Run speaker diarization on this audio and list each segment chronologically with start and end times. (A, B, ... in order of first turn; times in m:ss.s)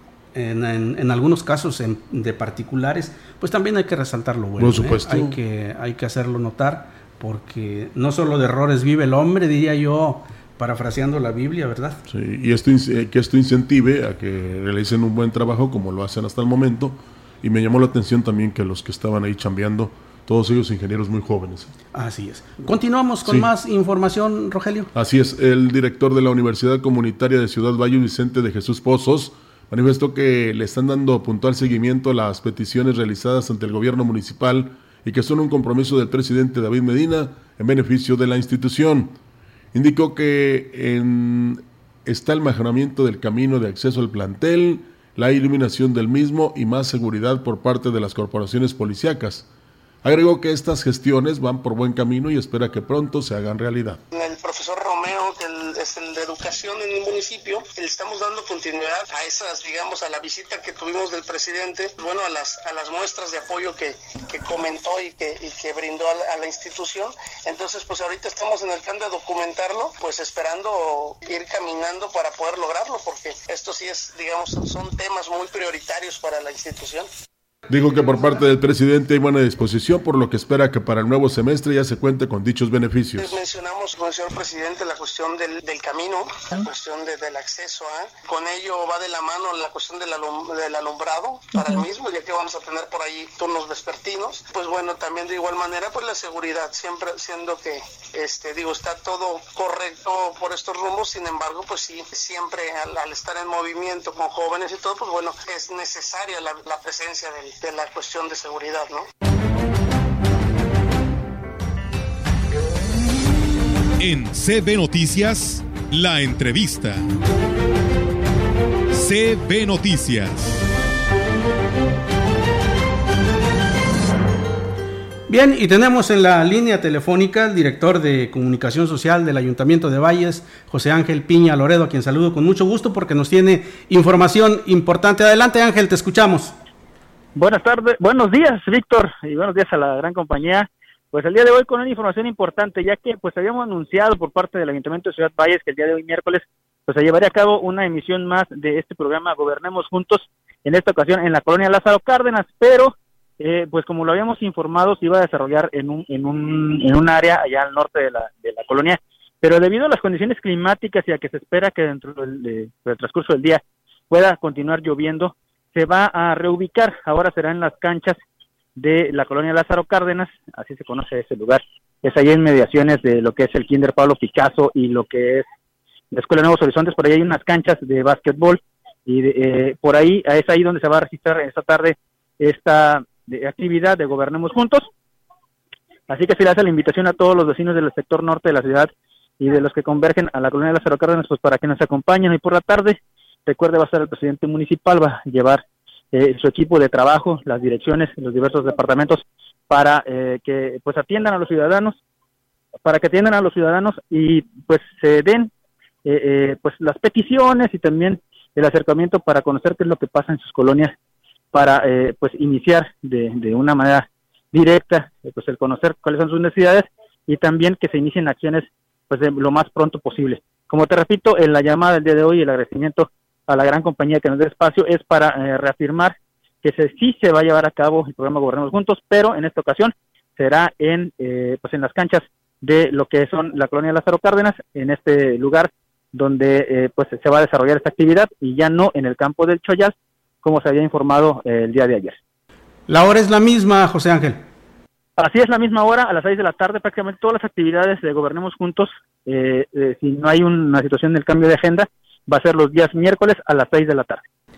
0:00.4-0:12.0 A
0:04.6-0:05.4 B
0:12.1-0:21.7 B
0:21.9-0:24.9 A
0:24.9-0:39.2 B
0:39.7-0:49.5 B
0:50.0-0:54.0 B
0:54.1-1:17.1 C
1:17.7-1:23.4 B
1:23.2-1:49.0 C
1:54.0-1:57.1 D
1:58.9-2:00.7 D
2:05.3-2:16.5 A
2:17.4-2:48.2 E
2:48.8-2:55.4 E
2:56.1-3:04.9 E
3:06.1-3:22.0 E
3:22.8-3:25.5 E
3:26.0-3:30.9 E
3:31.5-4:02.2 E
4:02.9-4:04.4 A
4:05.2-4:14.2 E